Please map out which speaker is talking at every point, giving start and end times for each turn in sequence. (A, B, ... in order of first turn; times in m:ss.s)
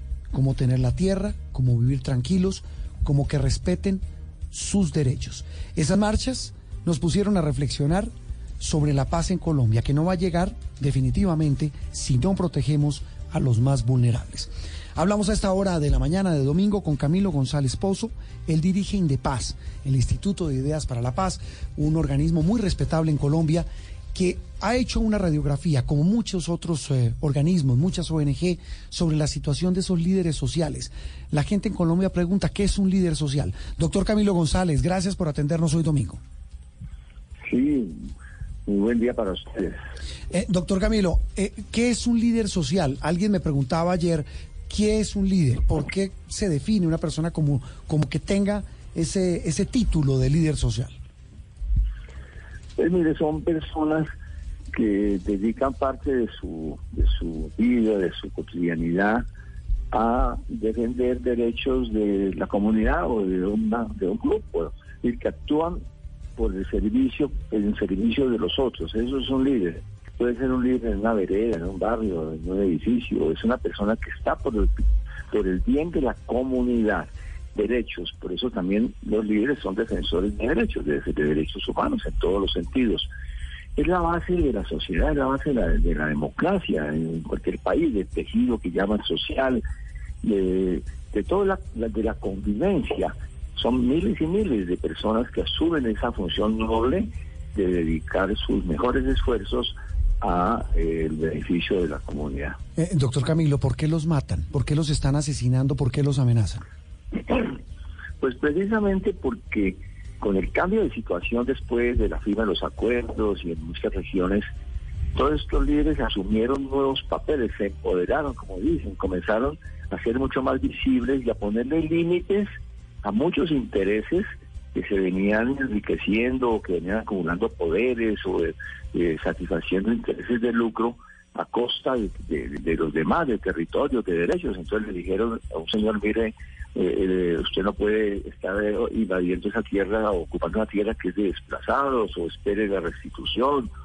0:00.3-0:36.2 A
0:37.4-0:38.1 B
0:38.6-0:39.8 B
0:40.3-0:50.9 A
0:52.8-0:54.1 B
0:54.7-0:59.2 B
0:59.9-1:05.8 B
1:06.4-1:23.1 B
1:23.8-1:29.6 B
1:30.2-1:42.6 B
1:42.8-1:46.6 A
1:47.3-1:47.6 B
1:48.2-1:54.5 B
1:55.1-2:02.5 B
2:03.0-2:23.7 B